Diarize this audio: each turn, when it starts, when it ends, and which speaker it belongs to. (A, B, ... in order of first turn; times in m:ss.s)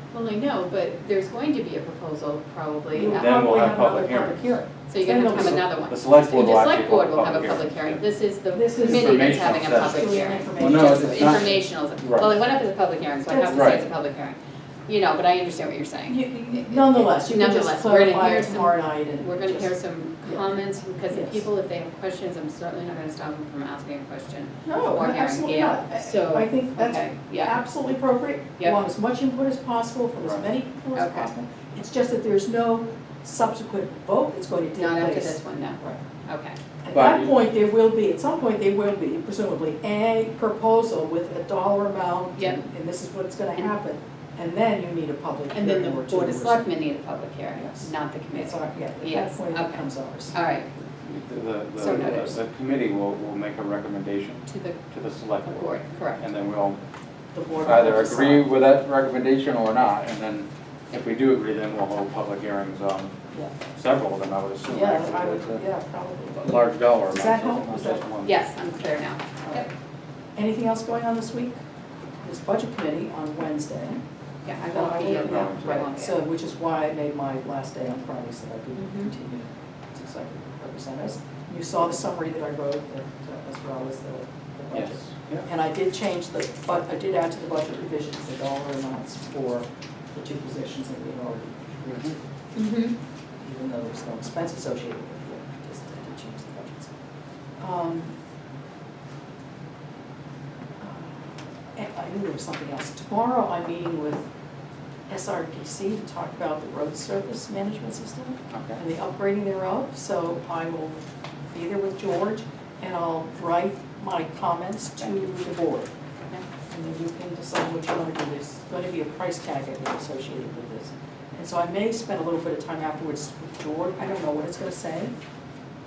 0:00.1-0:03.4 A
0:02.9-0:05.6 B
0:03.0-0:04.5 C
0:04.9-0:27.6 A
0:05.4-0:08.0 C
0:08.5-0:11.4 B
0:08.8-0:12.5 C
0:13.3-0:13.7 B
0:13.5-0:13.8 C
0:16.1-0:19.7 B
0:20.2-0:20.5 B
0:21.1-0:21.4 B
0:24.6-0:36.0 B
0:30.2-0:30.4 C
0:30.9-0:31.3 A
0:34.7-0:36.6 A
0:36.8-0:46.7 B
0:36.9-0:37.3 C
0:42.4-0:42.6 A
0:45.5-0:50.7 A
0:47.5-0:50.3 B
0:51.0-0:56.8 C
0:51.8-0:52.4 A
0:54.5-0:54.8 A
0:55.4-0:56.2 A
0:57.3-0:58.4 B
0:57.6-1:03.1 C
1:03.7-1:05.6 C
1:04.6-1:08.0 B
1:06.4-1:08.3 C
1:08.2-1:09.7 A
1:09.4-1:09.7 B
1:10.4-1:11.6 B
1:12.2-1:14.0 B
1:14.4-1:16.2 A
1:14.6-1:32.2 B
1:15.0-1:15.7 C
1:18.8-1:19.1 A
1:24.7-1:25.5 C
1:31.9-1:32.2 C
1:32.6-1:32.9 A
1:33.4-1:36.9 B
1:37.6-1:38.1 B
1:40.8-1:44.2 B
1:45.1-1:55.9 B
1:48.5-1:48.8 C
1:56.7-2:05.1 B